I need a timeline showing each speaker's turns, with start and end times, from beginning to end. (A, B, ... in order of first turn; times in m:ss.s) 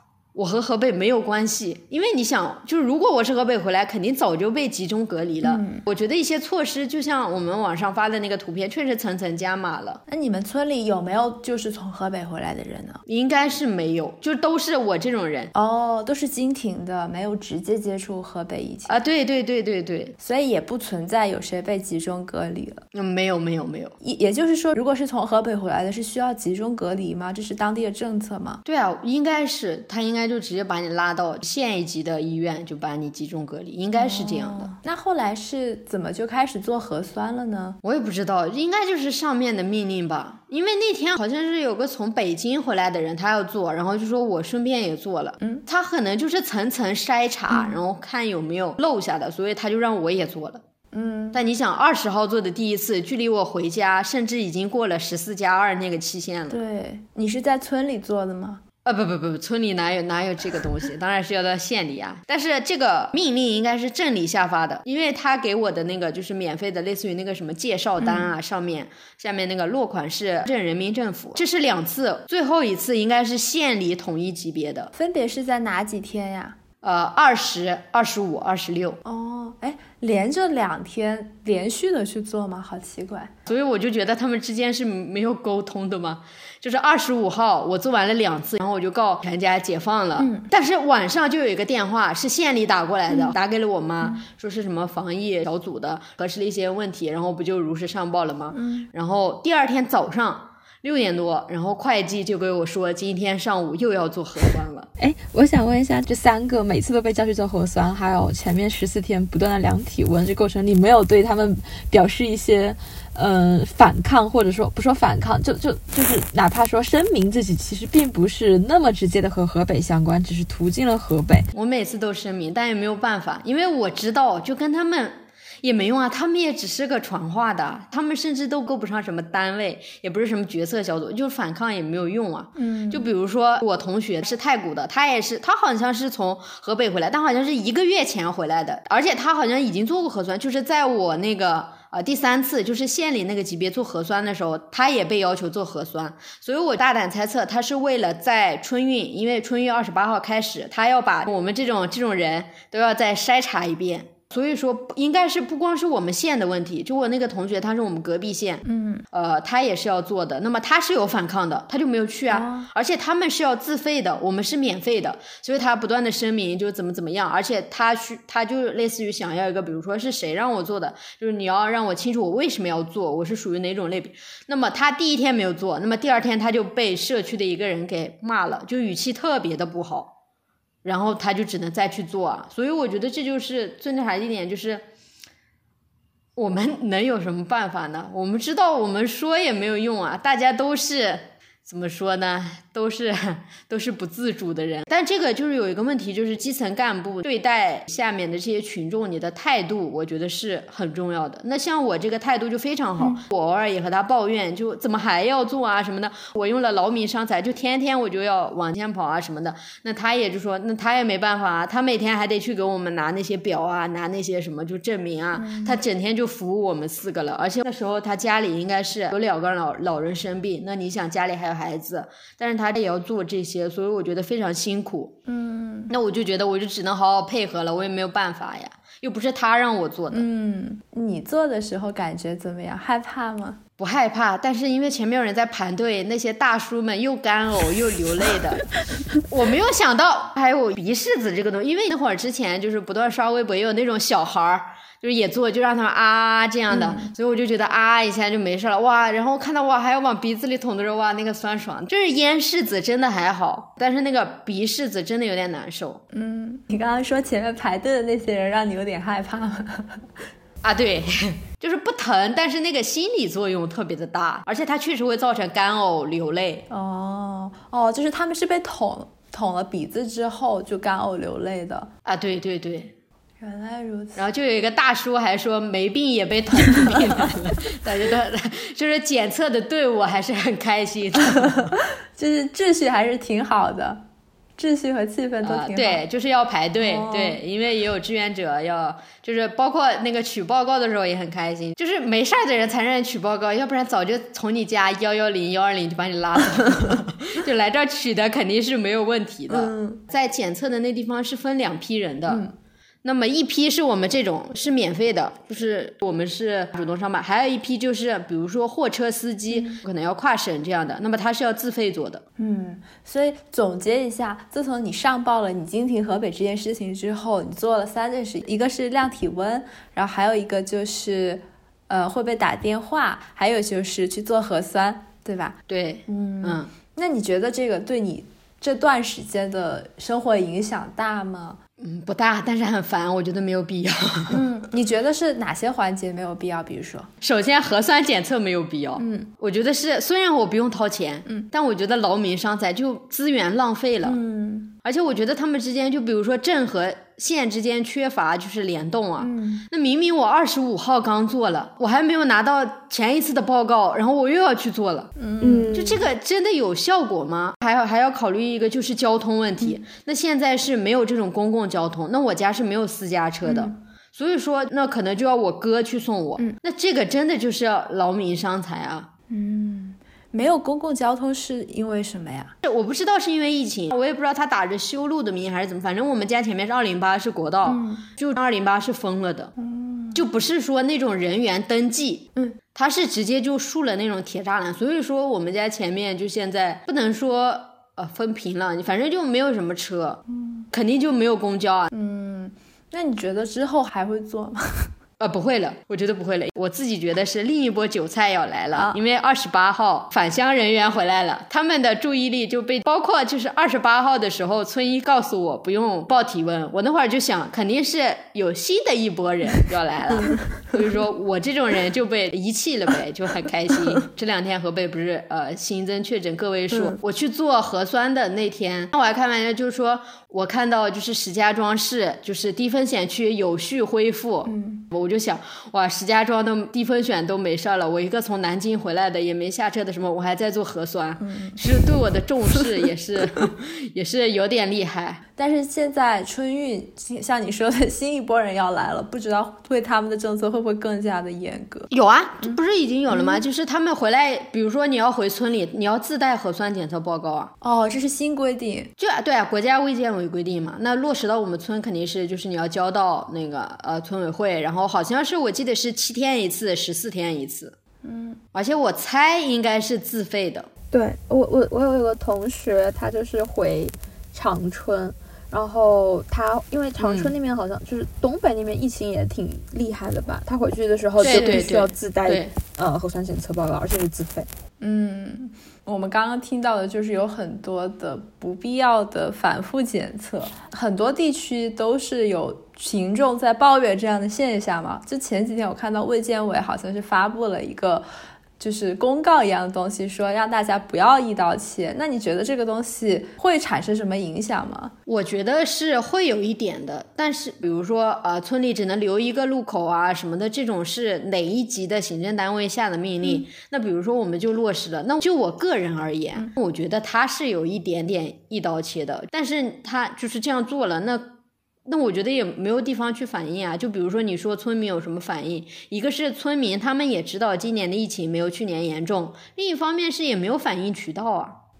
0:00.3-0:10.0 A
0:05.4-0:05.8 B
0:10.1-0:13.0 B
0:13.0-0:15.5 A
0:15.5-0:18.9 B
0:18.9-0:20.1 A
0:20.2-0:22.8 B
0:22.9-0:23.9 A
0:24.0-0:28.6 B
0:28.6-0:34.7 A
0:33.9-0:37.8 B
0:37.8-0:50.6 A
0:47.5-0:47.8 B
0:50.9-0:51.4 B
0:51.3-0:56.6 A
0:56.5-0:58.6 B
0:58.8-1:14.9 A
1:08.0-1:08.3 B
1:14.9-1:16.6 B
1:16.8-1:19.0 A
1:19.0-1:23.3 B
1:23.5-1:44.9 A
1:30.2-1:30.4 B
1:38.5-1:38.9 B
1:45.0-2:01.5 C
2:01.5-3:00.1 A
2:12.6-2:13.1 B
2:38.6-2:39.0 B
2:42.3-2:42.7 B
3:00.8-3:04.8 A
3:06.4-3:45.1 A
3:35.4-3:35.8 B
3:45.3-3:45.9 B
3:45.9-3:50.3 A
3:50.1-3:53.6 B
3:53.8-3:58.7 A
3:59.3-4:16.0 A
4:06.7-4:07.1 B
4:16.1-4:20.1 B
4:20.6-4:26.6 A
4:26.7-4:31.9 B
4:32.0-4:32.9 A
4:33.4-4:34.2 B
4:34.2-4:41.7 A
4:42.1-4:44.0 B
4:44.6-4:46.0 B
4:45.4-5:02.4 A
4:46.8-4:47.4 B
4:59.5-5:00.0 B
5:02.3-5:02.5 B
5:03.0-5:12.2 A
5:09.5-5:09.8 B
5:12.4-5:25.6 B
5:25.7-5:26.7 A
5:26.1-5:31.6 B
5:31.8-5:34.4 A
5:34.3-5:37.1 B
5:37.2-5:44.2 A
5:39.0-5:39.3 B
5:44.0-5:44.7 B
5:44.8-5:55.1 A
5:49.2-5:49.7 B
5:55.2-5:55.7 B
5:55.4-5:56.0 C
5:55.7-6:09.1 A
6:03.4-6:03.8 B
6:09.3-6:12.5 B
6:12.6-6:19.5 A
6:17.6-6:18.1 B
6:19.6-6:20.2 B
6:20.1-6:31.9 A
6:30.3-6:30.6 B
6:31.9-6:34.9 B
6:35.2-7:15.2 A
6:56.7-6:57.0 B
7:04.4-7:04.8 B
7:11.2-7:11.6 B
7:15.4-7:21.9 B
7:21.9-7:27.5 A
7:23.1-7:23.4 B
7:27.6-7:28.9 B
7:29.0-7:37.7 A
7:38.0-7:38.4 B
7:38.5-7:40.7 A
7:40.9-7:54.5 C
7:47.0-7:47.3 A
7:51.2-7:52.5 A
7:54.8-8:08.0 B
8:08.6-8:14.9 B
8:15.0-8:31.3 A
8:31.8-8:41.6 A